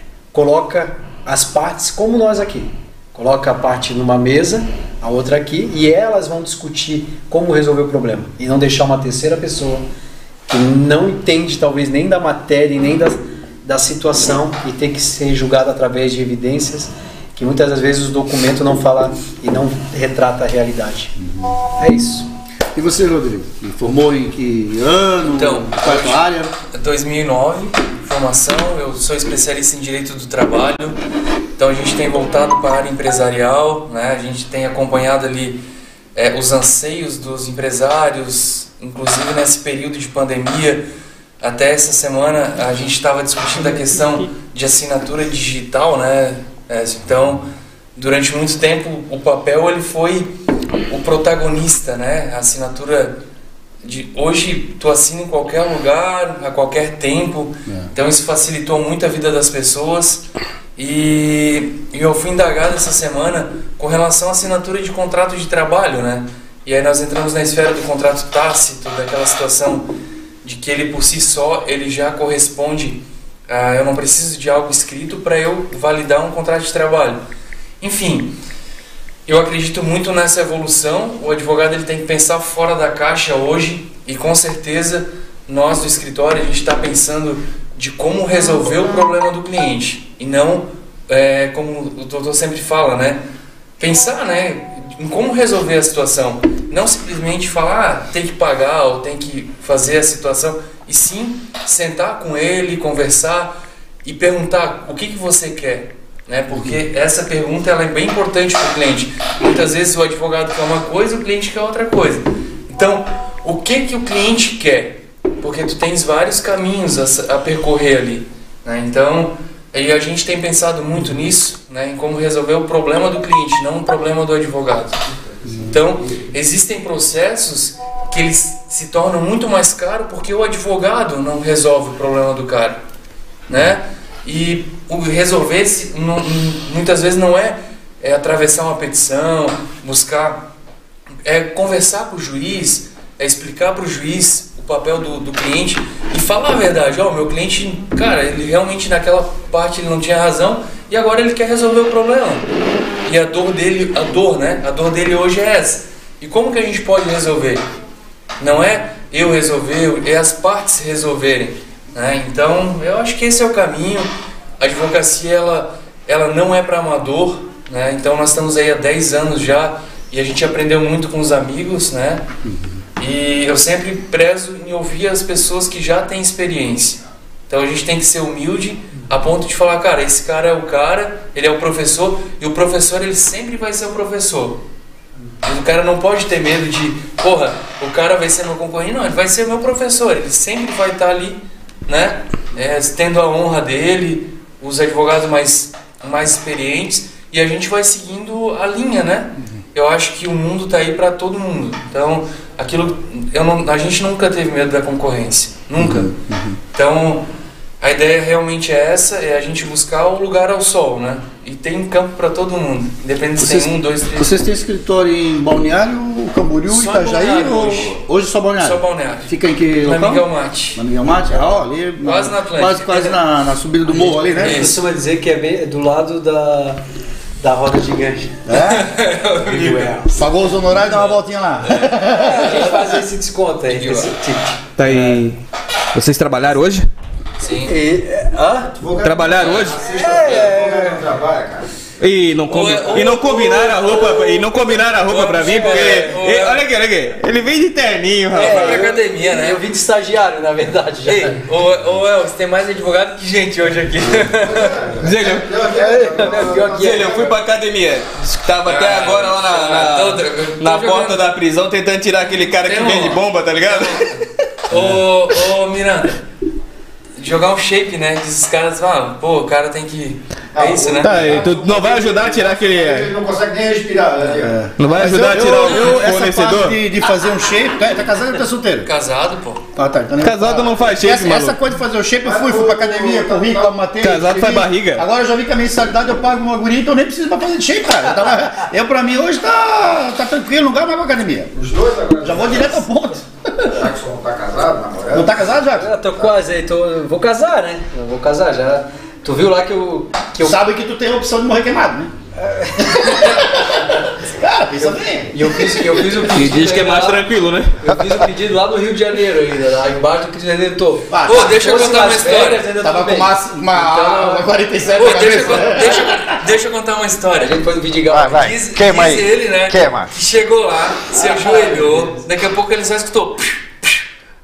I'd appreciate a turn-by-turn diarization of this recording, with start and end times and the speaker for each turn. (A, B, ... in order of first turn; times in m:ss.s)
0:00.3-0:09.8 A
0:10.5-0:21.2 A
0:21.8-0:22.3 A
0:22.7-0:26.5 B
0:25.3-0:31.0 C
0:31.6-0:35.6 C
0:36.1-0:40.8 C
0:41.4-0:47.4 C
0:48.0-0:50.3 C
0:50.9-0:53.1 C
0:53.8-1:00.2 C
1:00.8-1:09.9 C
1:10.4-1:17.2 C
1:17.8-1:18.3 C
1:19.2-1:33.2 C
1:33.8-2:05.0 C
2:05.4-2:05.8 B
2:05.7-2:12.8 C
2:13.5-2:20.5 C
2:21.2-2:32.5 C
2:33.0-2:37.6 C
2:38.4-2:52.2 C
2:52.4-2:52.8 B
2:53.0-3:04.6 C
3:05.4-3:26.1 C
3:25.8-3:26.6 B
3:26.7-3:27.2 C
3:27.8-3:34.4 C
3:33.4-3:44.6 B
3:36.7-3:38.0 C
3:38.6-3:40.8 C
3:42.0-3:43.2 C
3:43.9-3:46.8 A
3:44.4-3:44.8 C
3:47.4-3:48.4 A
3:48.4-3:48.9 B
3:48.5-3:50.0 C
3:49.4-3:50.2 A
3:50.1-3:52.6 B
3:50.8-3:51.2 C
3:51.7-3:53.0 C
3:52.1-3:55.2 A
3:53.7-3:54.1 C
3:54.8-3:55.4 D
3:55.9-3:56.9 D
3:57.4-3:57.7 C
3:57.6-3:58.8 A
3:58.8-4:01.7 E
3:59.0-3:59.8 D
3:59.8-4:01.0 A
4:02.0-4:08.9 D
4:02.5-4:06.6 C
4:08.3-4:11.4 A
4:08.3-4:09.6 C
4:11.0-4:14.8 C
4:14.0-4:17.4 E
4:15.0-4:24.2 D
4:15.7-4:17.3 A
4:18.6-4:21.2 C
4:22.6-4:26.2 C
4:27.2-4:31.2 C
4:30.5-4:34.7 E
4:31.0-4:33.1 D
4:34.2-4:38.9 B
4:34.8-4:36.8 D
4:38.8-4:39.6 C
4:39.8-4:51.5 B
4:40.2-4:41.6 D
4:42.2-4:43.8 E
4:44.0-4:45.0 D
4:51.5-4:52.8 E
4:52.2-4:53.8 B
4:53.6-4:55.5 E
4:55.1-4:55.9 B
4:55.7-5:00.6 A
5:00.4-5:02.1 B
5:02.4-5:03.4 A
5:02.9-5:03.5 B
5:04.2-5:06.0 B
5:05.3-5:07.3 A
5:06.3-5:07.8 D
5:07.8-5:14.5 A
5:11.1-5:11.8 B
5:11.2-5:12.7 C
5:12.8-5:16.4 B
5:14.9-5:17.6 C
5:17.4-5:18.5 A
5:18.1-5:20.1 E
5:18.3-5:24.0 C
5:21.1-5:22.2 A